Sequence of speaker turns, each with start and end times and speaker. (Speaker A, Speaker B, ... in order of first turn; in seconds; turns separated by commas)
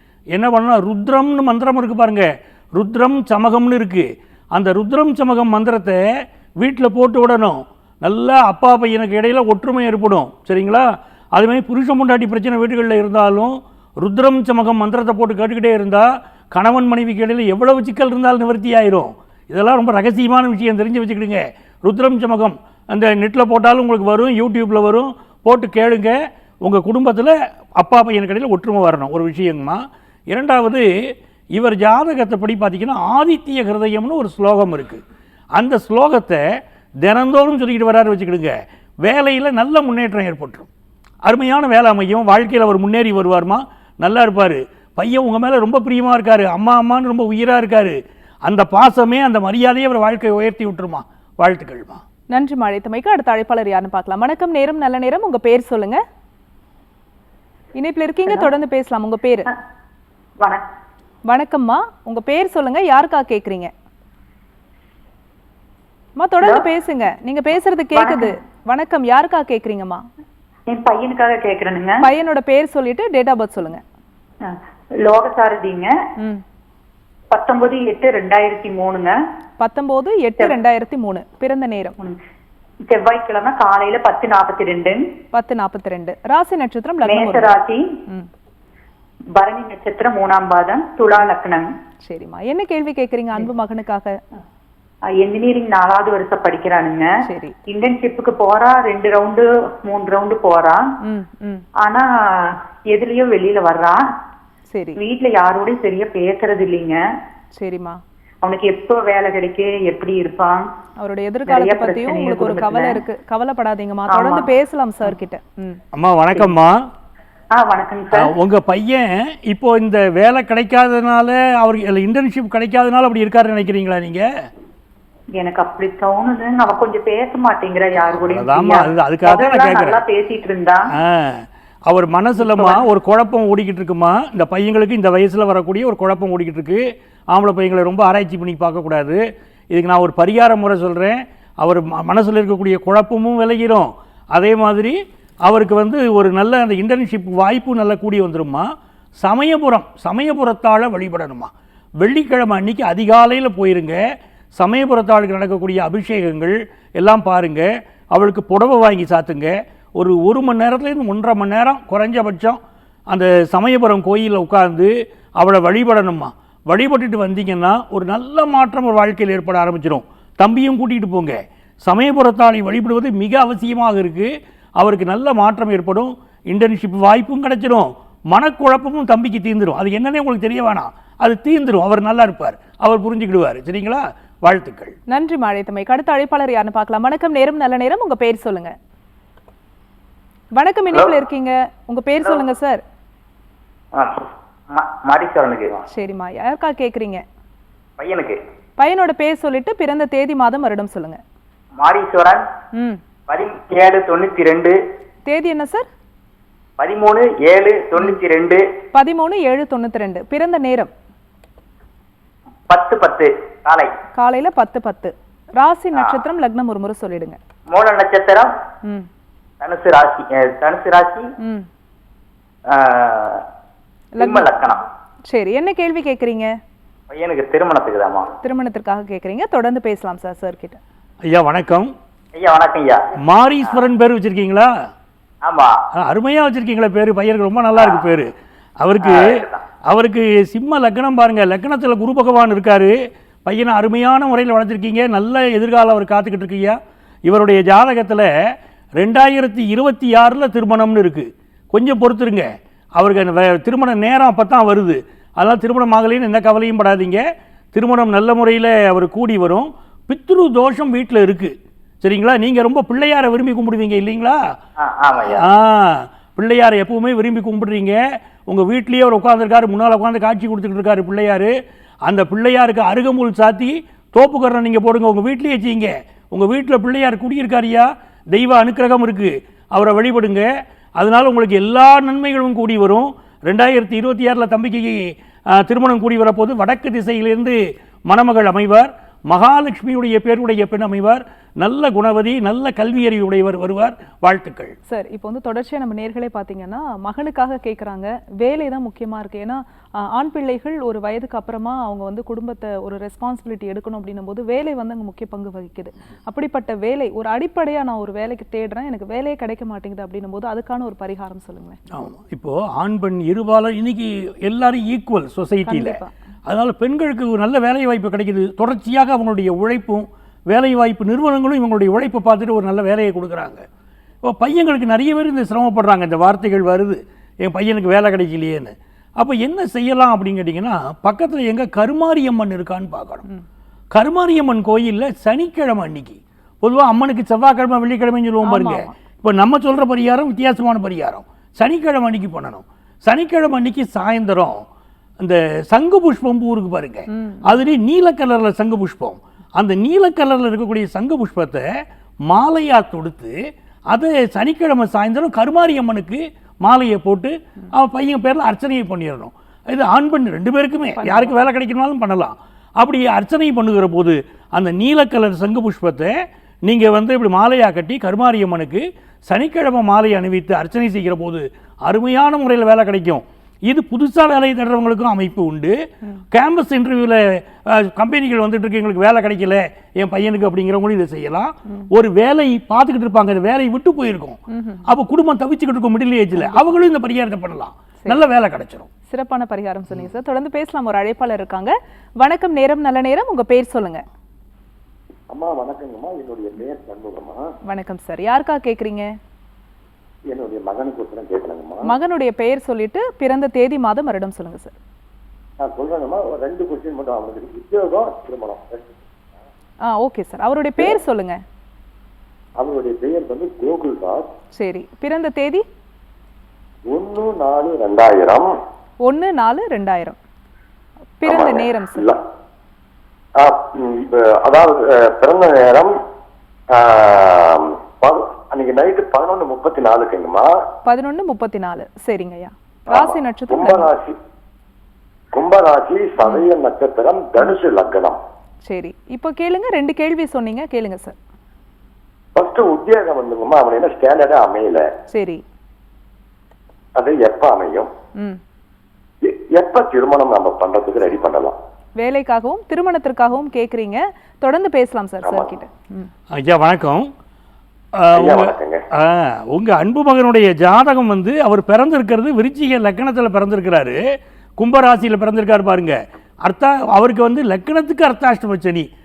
Speaker A: 0.3-6.0, Speaker A: 6.6-30.9, Speaker A: 31.5-35.0, Speaker A: 35.5-36.4, Speaker A: 37.0-40.7, Speaker A: 41.2-52.0, Speaker B: 52.3-56.0, Speaker B: 57.8-59.5, Speaker B: 61.3-63.7, Speaker B: 66.2-70.0, Speaker C: 67.9-68.3, Speaker C: 70.7-72.0, Speaker B: 72.0-73.8, Speaker C: 74.4-75.9, Speaker C: 77.3-79.2, Speaker B: 79.6-81.9, Speaker C: 82.9-85.0, Speaker B: 85.3-88.3, Speaker C: 87.0-87.8, Speaker C: 89.4-91.7, Speaker B: 92.0-94.2, Speaker C: 95.1-97.1, Speaker B: 97.2-97.5, Speaker C: 97.7-100.9, Speaker B: 101.0-101.6, Speaker C: 101.8-104.0, Speaker B: 104.7-105.0, Speaker C: 105.0-107.0, Speaker B: 107.5-108.0, Speaker C: 108.4-110.6, Speaker B: 111.0-115.8, Speaker C: 111.5-113.0, Speaker C: 114.1-114.5, Speaker A: 115.9-116.9, Speaker C: 117.5-118.3, Speaker A: 118.1-124.3, Speaker C: 125.4-130.8, Speaker A: 127.9-130.0, Speaker A: 130.9-148.7, Speaker C: 132.5-132.8, Speaker A: 149.2-154.0, Speaker A: 154.5-162.6, Speaker A: 163.1-184.9, Speaker B: 185.1-188.8, Speaker B: 190.5-192.8, Speaker D: 193.9-195.8, Speaker B: 195.9-197.2, Speaker D: 198.0-198.4, Speaker B: 198.8-201.2, Speaker D: 201.8-202.4, Speaker B: 202.8-203.0, Speaker D: 203.3-204.8, Speaker B: 205.2-205.9, Speaker D: 206.8-208.6, Speaker B: 208.9-210.9, Speaker D: 212.7-213.9, Speaker B: 214.1-217.4, Speaker D: 217.7-218.5, Speaker D: 219.6-221.3, Speaker B: 221.4-221.7, Speaker D: 222.7-223.4, Speaker B: 224.2-224.6, Speaker D: 224.2-224.8, Speaker B: 225.3-226.5, Speaker D: 227.1-228.3, Speaker B: 228.4-230.8, Speaker A: 231.3-231.9, Speaker D: 232.3-233.1, Speaker A: 233.2-234.7, Speaker D: 235.4-235.8, Speaker A: 235.9-242.9, Speaker D: 237.8-238.0, Speaker D: 239.0-239.6, Speaker A: 243.4-248.3, Speaker A: 249.0-257.2, Speaker A: 257.7-264.4, Speaker D: 264.8-265.4, Speaker A: 265.2-271.5, Speaker A: 272.1-294.8, Speaker B: 294.9-311.8, Speaker A: 311.9-323.6, Speaker B: 315.7-316.1, Speaker A: 324.2-333.2, Speaker A: 333.9-344.6, Speaker B: 338.4-338.9, Speaker A: 345.2-351.7, Speaker B: 347.1-347.4, Speaker A: 352.3-353.3, Speaker A: 353.9-375.8, Speaker B: 361.0-361.4, Speaker A: 376.3-388.9, Speaker B: 384.5-384.9, Speaker B: 389.1-394.0, Speaker E: 395.3-397.4, Speaker B: 397.7-399.1, Speaker E: 400.3-401.9, Speaker B: 401.9-404.8, Speaker E: 405.6-409.0, Speaker B: 409.9-411.4, Speaker E: 412.6-414.3, Speaker B: 414.6-415.6, Speaker E: 416.9-418.5, Speaker B: 419.1-420.2, Speaker B: 421.2-422.1, Speaker E: 421.2-422.2, Speaker E: 423.4-425.9, Speaker E: 426.7-430.5, Speaker B: 430.9-433.9, Speaker E: 432.9-434.1, Speaker E: 435.3-438.2, Speaker B: 438.6-441.1, Speaker E: 442.4-444.9, Speaker B: 445.1-445.4, Speaker E: 446.9-447.9, Speaker E: 449.2-451.6, Speaker B: 452.0-456.1, Speaker E: 455.2-455.6, Speaker A: 456.3-457.1, Speaker A: 457.9-464.0, Speaker E: 458.1-458.8, Speaker A: 464.6-468.9